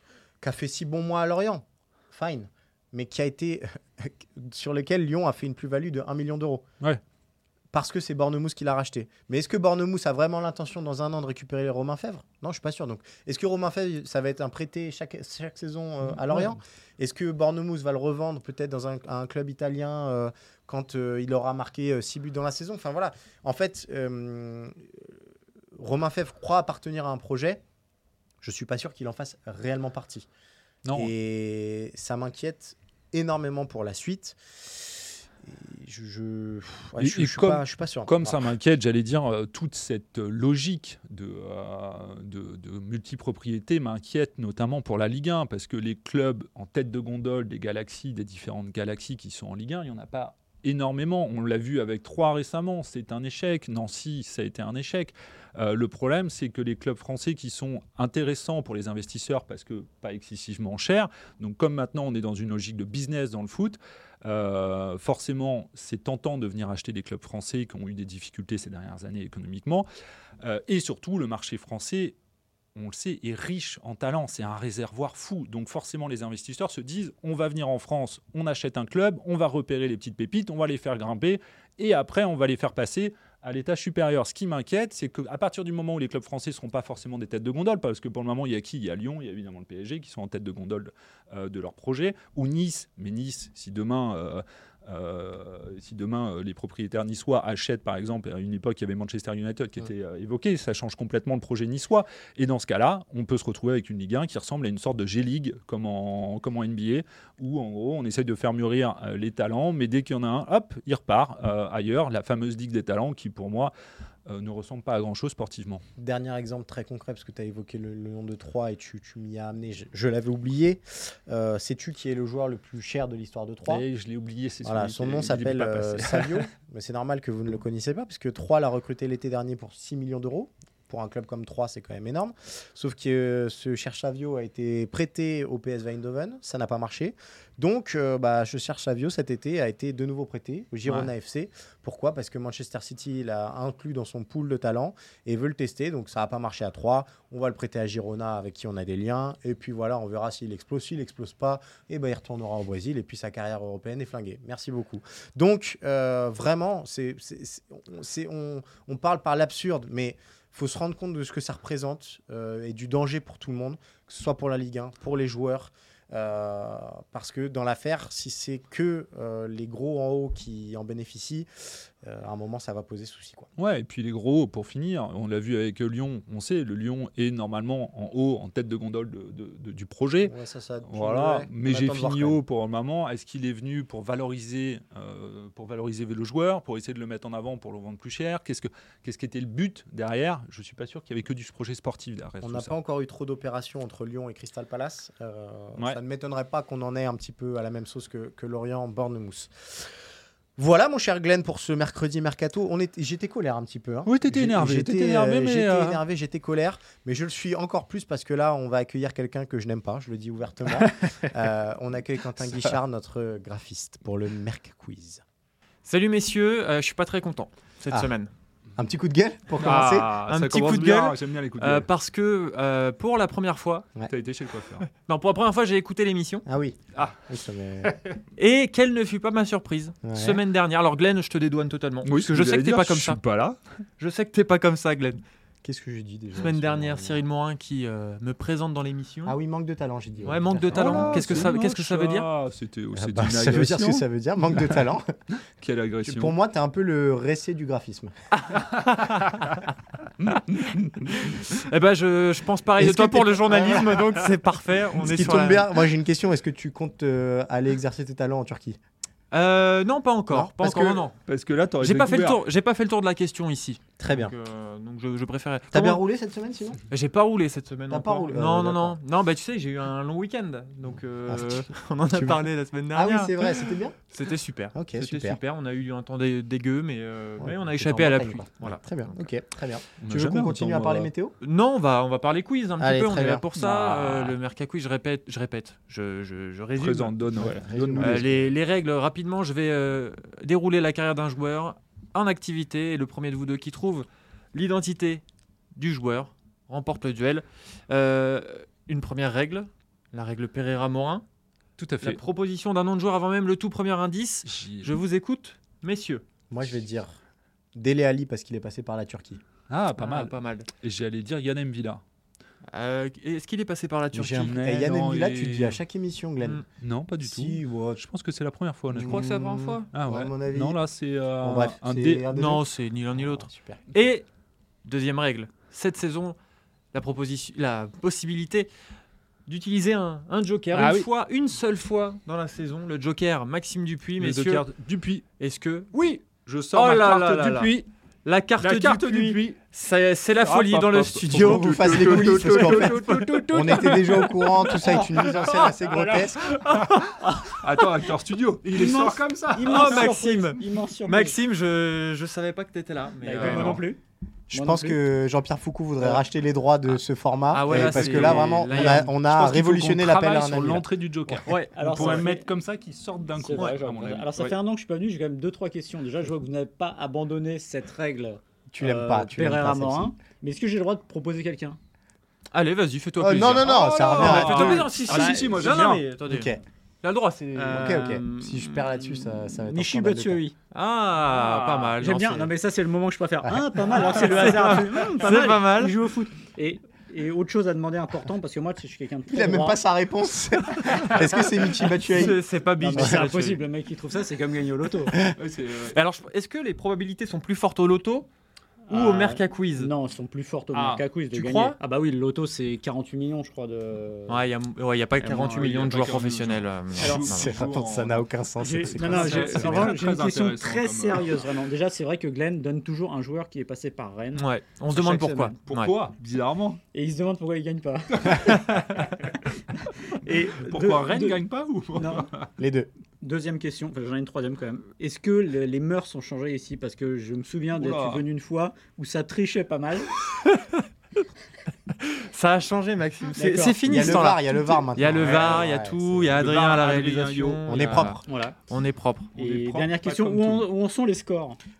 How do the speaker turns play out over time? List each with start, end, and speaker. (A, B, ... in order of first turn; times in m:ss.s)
0:00.4-0:06.6 A
0:07.7-0:25.1 A
0:16.1-0:16.6 B
0:25.8-0:27.6 A
0:28.4-0:30.3 A
0:30.8-0:31.1 B
0:30.9-0:38.5 A
0:37.0-1:09.8 B
1:10.4-1:12.2 B
1:12.7-1:53.7 B
1:54.3-1:55.8 B
1:56.0-2:03.8 A
2:03.7-2:06.4 B
2:04.6-2:53.5 A
2:53.6-3:00.3 B
3:00.2-3:02.4 A
3:00.8-3:12.7 B
3:12.4-3:20.0 A
3:20.6-3:35.2 A
3:24.0-3:26.0 B
3:35.8-3:38.3 C
3:38.8-3:40.1 A
3:39.6-3:41.9 B
3:40.3-3:43.9 C
3:44.1-3:44.9 B
3:44.9-3:46.4 C
3:46.4-3:47.9 A
3:46.9-3:47.2 B
3:47.8-3:48.2 B
3:48.4-3:53.2 C
3:50.0-3:50.4 A
3:52.0-3:53.6 B
3:54.0-3:55.2 C
3:55.6-3:57.2 A
3:56.4-3:59.4 C
3:59.2-4:01.5 A
4:00.2-4:02.3 C
4:00.7-4:04.0 B
4:02.9-4:05.0 A
4:05.6-4:06.3 B
4:06.0-4:08.1 A
4:08.5-4:09.4 C
4:08.6-4:09.5 B
4:10.2-4:11.3 B
4:11.2-4:15.7 C
4:12.8-4:14.1 A
4:15.0-4:18.8 A
4:19.3-4:21.2 C
4:20.3-4:21.0 A
4:21.2-4:22.4 B
4:21.8-4:26.0 C
4:24.0-4:24.3 A
4:25.7-4:26.8 A
4:26.9-4:39.3 C
4:27.9-4:29.0 A
4:31.3-4:34.0 A
4:34.7-4:35.4 A
4:37.4-4:41.3 A
4:40.0-4:41.1 B
4:41.4-4:55.2 C
4:42.8-4:43.4 A
4:43.5-4:44.4 B
4:46.8-4:48.3 B
4:47.3-4:48.5 A
4:55.7-5:01.2 C
5:01.8-5:02.2 B
5:02.0-5:06.2 C
5:04.4-5:05.0 B
5:06.5-5:07.2 A
5:07.7-5:09.4 A
5:09.7-5:12.0 B
5:10.0-5:10.7 C
5:12.7-5:14.6 C
5:14.1-5:16.6 A
5:14.4-5:15.8 B
5:16.8-5:19.3 B
5:17.2-5:18.0 A
5:18.9-5:20.8 A
5:19.0-5:19.9 C
5:19.9-5:22.2 B
5:21.4-5:23.8 A
5:22.3-5:24.2 C
5:24.8-5:26.4 C
5:26.9-5:28.7 C
5:29.4-5:34.6 C
5:30.7-5:31.1 B
5:34.2-5:35.2 B
5:35.4-5:36.0 C
5:35.9-5:37.8 B
5:36.7-5:44.7 C
5:38.6-5:39.6 B
5:40.4-5:44.3 B
5:41.3-5:46.6 A
5:45.4-5:47.0 B
5:46.5-5:47.0 C
5:47.2-5:47.6 D
5:47.6-5:50.1 B
5:48.7-5:51.4 D
5:49.6-5:53.8 C
5:53.2-5:55.0 D
5:53.4-5:53.8 B
5:54.5-6:01.4 A
5:57.5-5:59.1 C
5:57.7-6:04.5 B
5:57.8-5:58.1 D
6:01.4-6:02.2 C
6:01.5-6:02.5 D
6:03.4-6:11.8 D
6:08.7-6:10.1 A
6:12.5-6:16.5 C
6:13.2-6:14.9 A
6:13.6-6:16.0 B
6:15.0-6:15.7 D
6:16.3-6:16.6 A
6:17.0-6:18.2 C
6:17.5-6:20.6 D
6:17.7-6:20.4 A
6:20.7-6:22.5 C
6:21.4-6:29.8 D
6:21.5-6:21.9 B
6:24.0-6:26.0 C
6:29.3-6:32.4 A
6:32.1-6:33.6 C
6:32.8-6:35.3 D
6:32.9-6:33.2 A
6:35.4-6:36.0 B
6:35.9-6:38.3 C
6:38.9-6:44.4 D
6:38.9-6:39.9 C
6:40.7-6:41.1 B
6:41.3-6:41.8 C
6:44.3-6:47.7 C
6:45.2-6:48.3 B
6:47.0-6:47.3 D
6:47.3-6:50.0 A
6:48.6-6:55.6 D
6:48.9-6:51.4 B
6:54.4-6:55.9 C
6:55.6-6:56.8 B
6:56.9-6:59.3 D
6:58.2-6:59.2 B
7:00.1-7:01.4 D
7:00.6-7:02.5 B
7:02.0-7:02.3 D
7:02.6-7:02.9 A
7:03.2-7:10.1 D
7:07.8-7:08.2 B
7:10.4-7:10.8 C
7:12.0-7:19.4 C
7:13.4-7:14.2 D
7:13.8-7:16.3 A
7:15.2-7:15.7 B
7:16.4-7:18.1 B
7:17.7-7:18.2 A
7:18.2-7:18.6 D
7:19.4-7:20.7 B
7:19.4-7:21.6 D